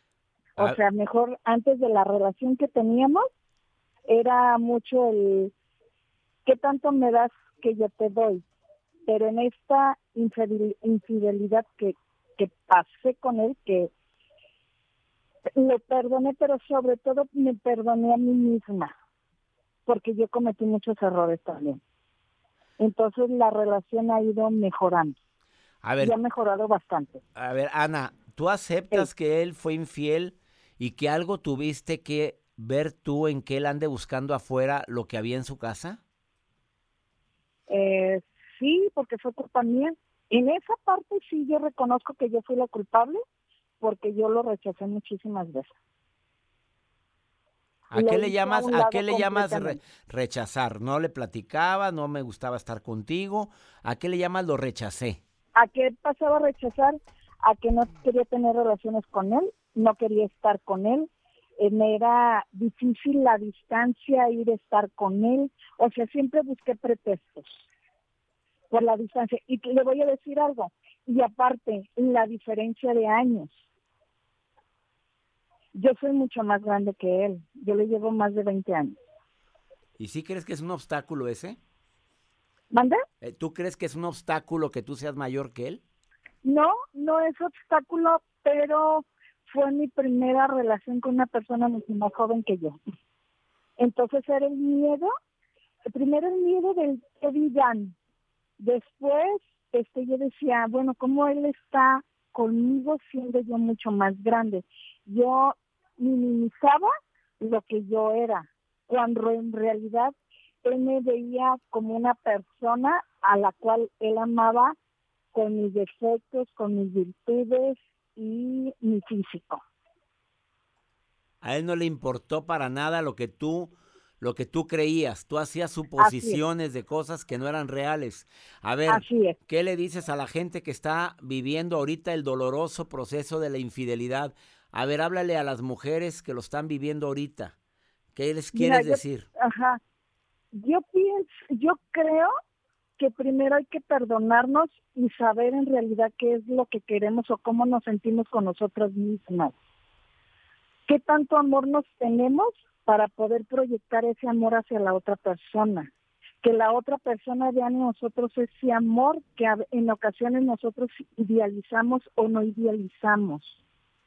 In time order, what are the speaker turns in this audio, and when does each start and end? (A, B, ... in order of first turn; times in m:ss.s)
0:00.6-0:03.3 A
0:04.1-0:05.5 A
0:06.4-0:08.4 A
0:09.0-0:13.9 A
0:15.5-0:18.9 A
0:19.8-0:21.8 A
0:22.8-0:25.2 A
0:25.8-0:26.2 B
0:26.0-0:27.2 A
0:27.4-0:36.0 B
0:37.7-0:43.2 A
0:43.8-0:45.7 A
0:47.9-0:55.2 B
0:47.9-0:49.8 A
0:55.6-1:07.6 A
1:08.7-1:13.6 A
1:15.7-1:19.0 A
1:20.0-1:21.6 B
1:22.7-1:23.0 A
1:23.2-1:25.8 B
1:26.4-1:32.8 A
1:33.8-1:35.1 A
1:35.9-1:38.0 A
1:38.6-1:54.8 A
1:55.3-1:59.6 A
2:01.4-2:17.5 B
2:06.0-2:06.4 A
2:08.9-2:09.4 A
2:18.1-2:19.2 B
2:18.5-2:19.8 A
2:20.5-2:22.3 A
2:23.0-2:29.5 A
2:30.9-2:35.9 A
2:36.4-2:43.6 A